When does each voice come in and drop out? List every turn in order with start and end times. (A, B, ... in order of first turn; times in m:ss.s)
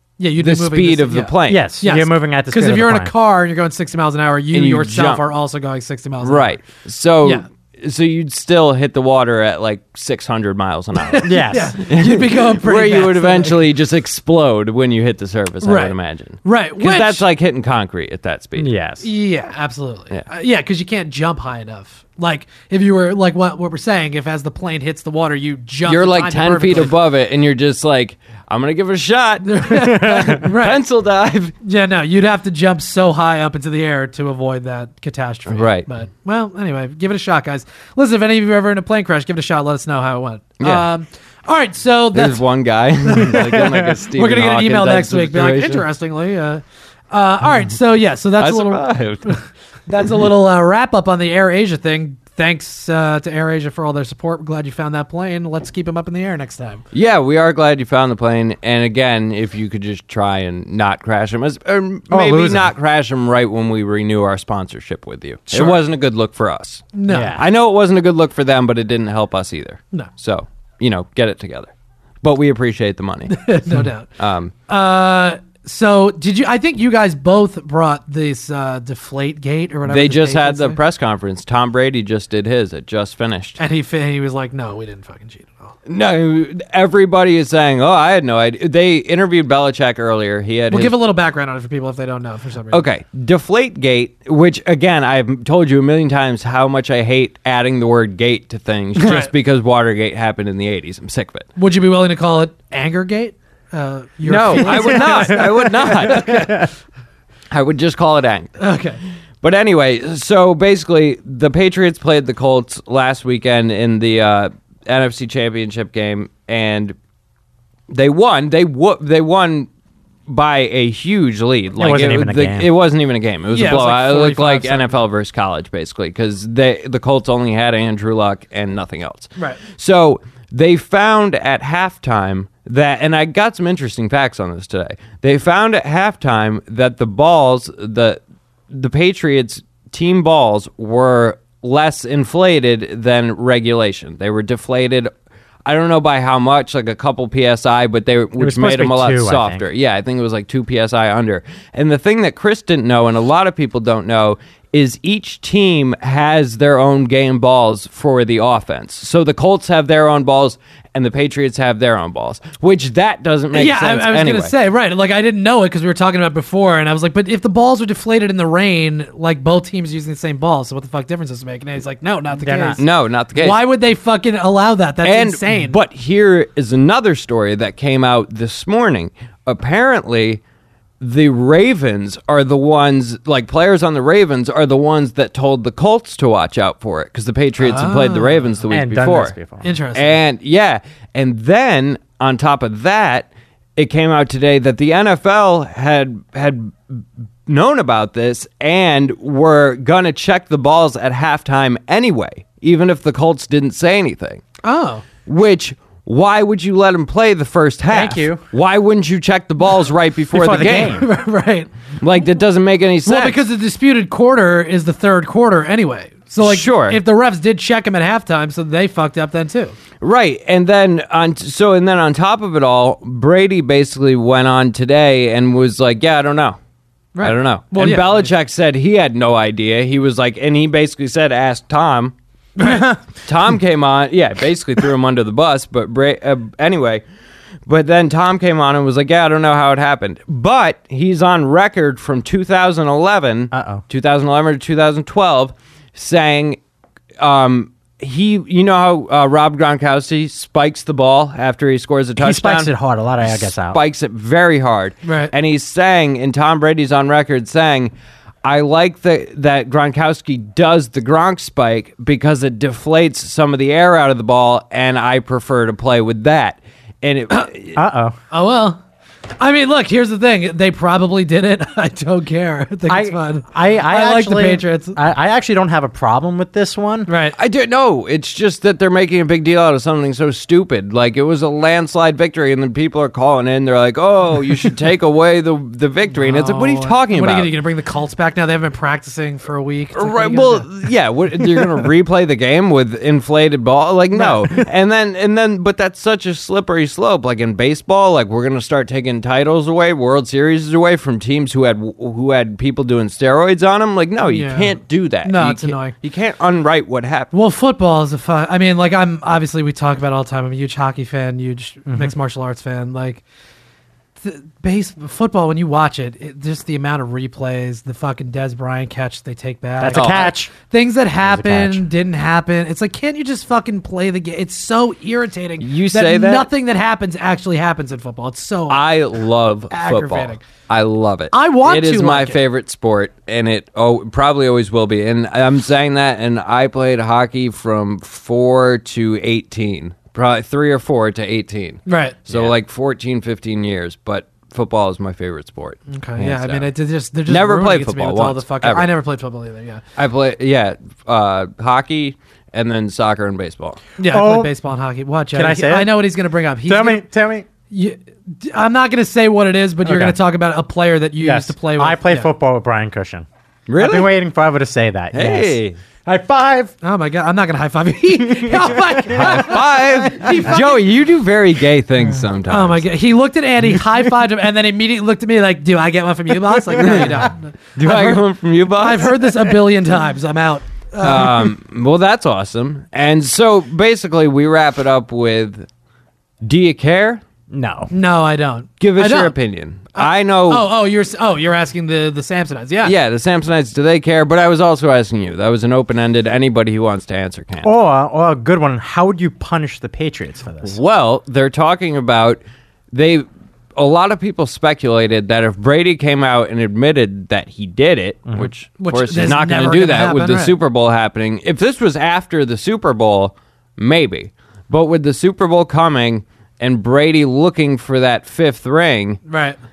0:00.2-0:06.7 A
0:00.4-0:01.7 B
0:01.5-0:03.1 C
0:04.5-0:05.2 B
0:06.2-0:18.7 B
0:11.0-0:13.6 A
0:11.2-0:11.8 C
0:15.6-0:17.2 A
0:18.6-0:19.1 C
0:19.0-0:27.0 A
0:25.9-0:31.5 B
0:29.4-0:30.8 A
0:31.6-0:42.4 A
0:35.5-0:35.9 B
0:40.6-0:40.9 B
0:42.1-0:45.9 B
0:43.1-0:56.8 A
0:48.4-0:49.4 B
0:56.9-1:11.7 B
1:02.1-1:02.7 C
1:05.5-1:05.8 A
1:07.0-1:07.4 A
1:07.1-1:07.4 C
1:12.2-1:13.4 B
1:13.3-1:14.1 A
1:14.2-1:14.5 B
1:14.7-1:20.8 A
1:19.9-1:23.6 B
1:23.6-1:25.7 A
1:25.9-1:31.0 B
1:30.7-1:32.8 A
1:32.7-1:41.5 B
1:39.0-1:39.3 A
1:41.6-1:46.7 A
1:44.2-1:46.4 B
1:44.8-1:45.4 C
1:46.0-1:46.7 C
1:47.5-1:48.6 B
1:48.6-1:49.0 A
1:49.4-1:57.0 B
1:57.9-1:59.7 B
2:00.3-2:25.1 B
2:01.8-2:02.7 C
2:03.5-2:05.0 A
2:25.7-2:44.5 B
2:28.4-2:29.6 C
2:43.5-2:55.8 A
2:52.4-2:52.8 C
2:52.8-2:53.6 B
2:55.0-3:00.4 B
3:01.0-3:09.4 B
3:07.6-3:08.4 A
3:08.7-3:09.7 C
3:09.6-3:10.2 A
3:10.0-3:24.4 B
3:24.6-3:25.0 A
3:25.3-3:30.9 B
3:27.9-3:28.4 C
3:30.3-3:31.1 C
3:30.5-3:31.7 A
3:32.0-3:33.4 B
3:33.1-3:39.8 A
3:36.4-3:37.0 B
3:40.0-3:46.6 B
3:47.2-3:48.3 A
3:47.2-3:52.1 B
3:52.6-3:52.9 A
3:53.3-3:57.0 B
3:57.7-4:06.6 B
4:03.5-4:03.8 C
4:07.2-4:17.9 B
4:12.2-4:13.8 C
4:15.1-4:15.3 A
4:18.4-4:27.8 B
4:27.8-4:28.2 C
4:28.3-4:28.8 A
4:29.4-4:35.0 A
4:32.9-4:37.1 C
4:37.1-4:37.4 A
4:37.4-4:47.5 B
4:46.2-4:50.7 A
4:50.0-5:07.3 B
4:54.1-4:54.6 A
5:04.2-5:05.9 A
5:07.3-5:13.2 A
5:11.9-5:12.1 C
5:14.2-5:28.8 A
5:19.8-5:20.5 C
5:19.9-5:20.3 B
5:21.2-5:21.9 C
5:25.6-5:26.5 B
5:28.7-5:46.7 B
5:29.7-5:30.4 A
5:31.3-5:32.4 A
5:41.9-5:42.5 A
5:45.9-5:49.8 A
5:47.3-5:48.9 B
5:50.0-5:53.8 B
5:54.0-5:57.0 A
5:54.1-5:54.5 C
5:55.3-5:56.0 C
5:56.7-5:57.5 C
5:57.7-6:02.3 A
5:59.8-6:00.2 C
6:01.2-6:03.3 C
6:03.7-6:04.1 B
6:03.8-6:06.7 C
6:05.1-6:05.8 B
6:06.8-6:10.8 A
6:08.2-6:10.6 C
6:09.2-6:12.8 B
6:12.5-6:21.5 A
6:16.7-6:17.3 C
6:16.8-6:19.2 B
6:21.0-6:25.7 B
6:26.4-6:27.2 B
6:27.5-6:27.9 C
6:27.9-6:29.3 A
6:28.8-6:30.7 B
6:30.0-6:32.9 A
6:32.8-6:37.7 B
6:37.6-6:40.8 C
6:40.6-6:42.4 B
6:42.9-6:59.2 B
6:48.8-6:50.6 A
6:59.3-6:59.6 A